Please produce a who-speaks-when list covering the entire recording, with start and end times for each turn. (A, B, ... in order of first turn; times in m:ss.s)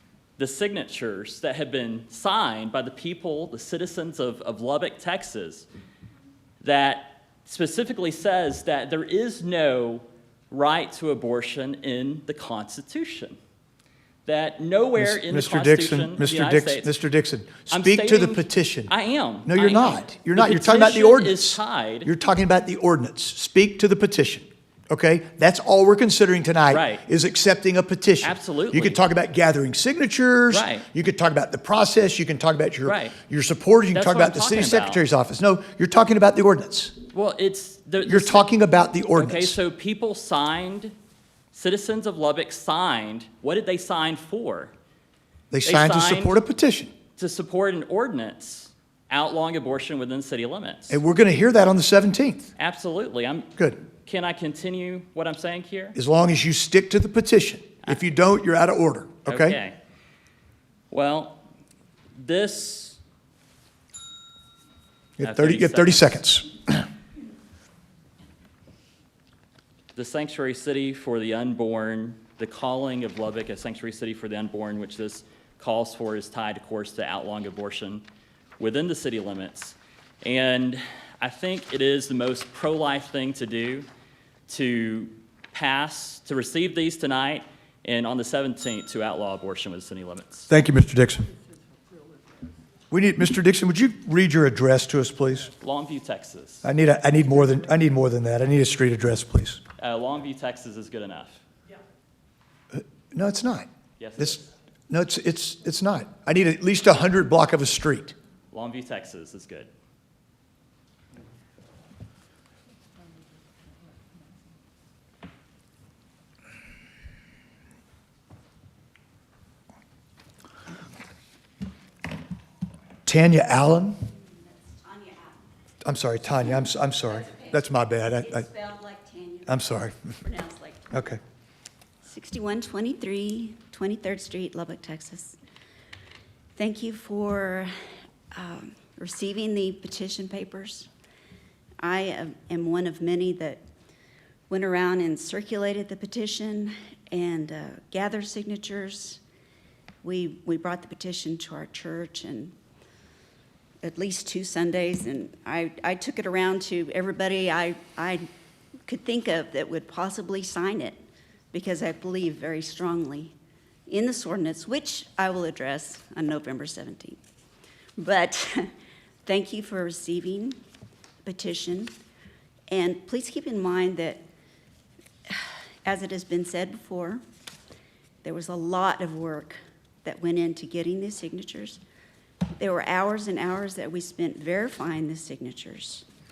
0:00.4-0:05.7 A
0:06.6-0:13.4 A
0:14.2-0:16.9 A
0:15.0-0:18.9 B
0:17.7-0:22.1 A
0:19.5-0:37.0 B
0:26.7-0:27.0 A
0:28.2-0:29.0 A
0:30.5-0:30.9 A
0:32.8-0:33.2 A
0:33.9-0:35.0 A
0:37.1-0:38.5 A
0:38.0-0:39.6 B
0:39.2-0:41.0 A
0:41.5-0:44.7 A
0:45.5-0:46.9 B
0:45.6-0:46.4 A
0:47.2-0:51.0 A
0:50.9-0:52.5 B
0:52.6-0:56.0 A
0:56.0-0:59.6 B
0:59.3-0:59.8 A
1:00.9-1:01.5 A
1:02.2-1:03.0 A
1:05.2-1:06.8 B
1:05.2-1:06.2 A
1:10.0-1:18.0 A
1:18.6-1:23.9 A
1:24.5-1:30.5 A
1:30.5-1:31.3 B
1:32.9-1:35.5 B
1:35.6-1:36.7 A
1:36.6-1:39.6 B
1:39.8-1:41.4 A
1:42.7-1:48.2 B
1:44.0-1:44.5 A
1:48.5-1:49.7 A
2:03.1-2:04.0 B
2:04.3-2:05.4 C
2:05.8-2:08.5 B
2:07.2-2:07.5 C
2:08.2-2:09.7 C
2:09.5-2:10.0 B
2:10.2-2:11.0 C
2:10.9-2:11.2 B
2:12.0-2:15.4 C
2:16.6-2:17.7 C
2:18.3-2:20.9 C
2:21.8-2:23.6 C
2:24.5-2:29.2 C
2:30.0-2:32.5 C
2:33.8-2:38.3 C
2:38.9-2:41.0 C
2:41.5-2:43.3 C
2:43.9-2:47.2 C
2:48.0-2:48.7 C
2:49.3-2:50.6 C
2:51.2-2:51.9 C
2:52.7-2:54.2 C
2:55.3-2:57.2 C
2:58.2-3:01.8 C
3:02.6-3:06.1 C